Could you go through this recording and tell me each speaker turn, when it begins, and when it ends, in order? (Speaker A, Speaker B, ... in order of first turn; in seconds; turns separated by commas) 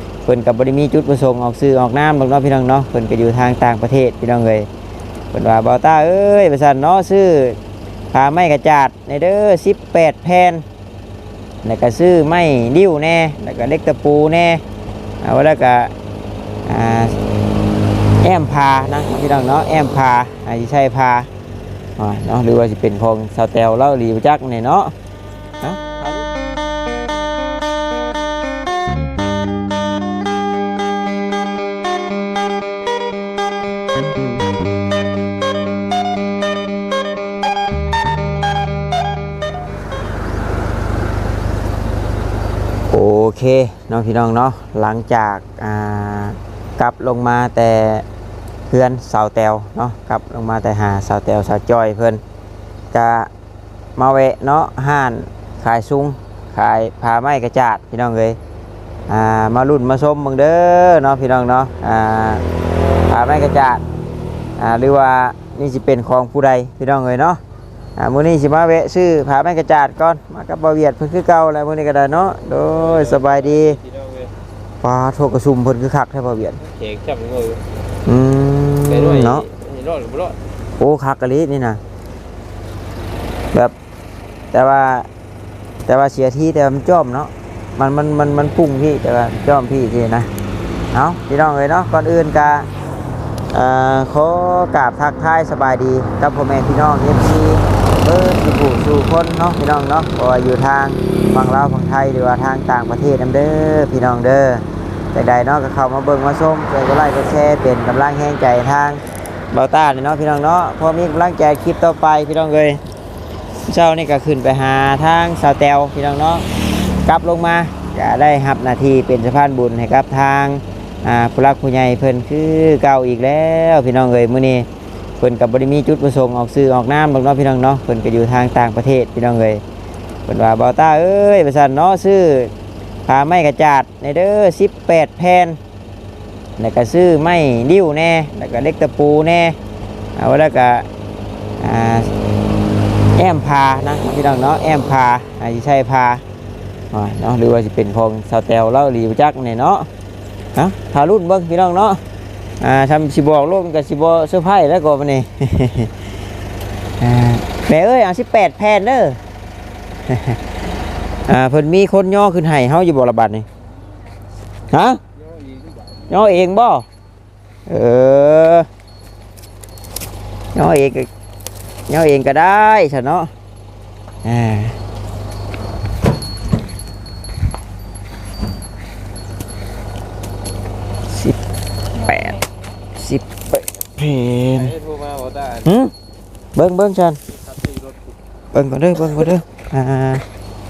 Speaker A: 0.2-4.7, Speaker A: 5.3-7.6, Speaker A: 8.1-10.7, Speaker A: 11.6-14.6, Speaker A: 15.2-15.9, Speaker A: 16.7-17.2, Speaker A: 18.2-21.3, Speaker A: 22.0-24.9, Speaker A: 25.6-26.2, Speaker A: 42.9-48.0, Speaker A: 48.7-52.2, Speaker A: 52.9-53.3, Speaker A: 54.0-58.4, Speaker A: 59.1-62.4, Speaker A: 63.1-63.8, Speaker A: 64.6-67.4, Speaker A: 68.0-73.8, Speaker B: 72.5-74.3, Speaker A: 74.8-76.6, Speaker B: 76.6-77.6, Speaker A: 78.1-79.5, Speaker B: 78.9-80.4, Speaker A: 80.8-81.8, Speaker A: 84.5-85.1, Speaker A: 85.9-90.3, Speaker A: 90.9-92.7, Speaker A: 93.5-112.8, Speaker A: 113.7-116.5, Speaker A: 117.1-124.7, Speaker A: 125.2-129.6, Speaker A: 130.3-132.5, Speaker A: 133.1-135.6, Speaker A: 136.6-139.6, Speaker A: 140.2-140.9, Speaker A: 141.6-142.1, Speaker A: 143.2-146.2, Speaker A: 146.9-149.9, Speaker A: 150.6-152.0, Speaker A: 152.6-156.0, Speaker A: 157.0-159.2, Speaker A: 160.1-160.4, Speaker A: 161.3-163.5, Speaker A: 164.7-165.0, Speaker B: 165.2-166.1, Speaker A: 166.1-166.9, Speaker A: 167.7-168.7, Speaker A: 170.5-171.1, Speaker A: 171.9-173.3, Speaker A: 174.2-174.8, Speaker A: 182.0-182.4, Speaker A: 183.0-184.7, Speaker B: 184.5-185.7, Speaker A: 185.7-185.9, Speaker A: 186.6-187.2, Speaker B: 187.3-188.2, Speaker A: 188.5-190.2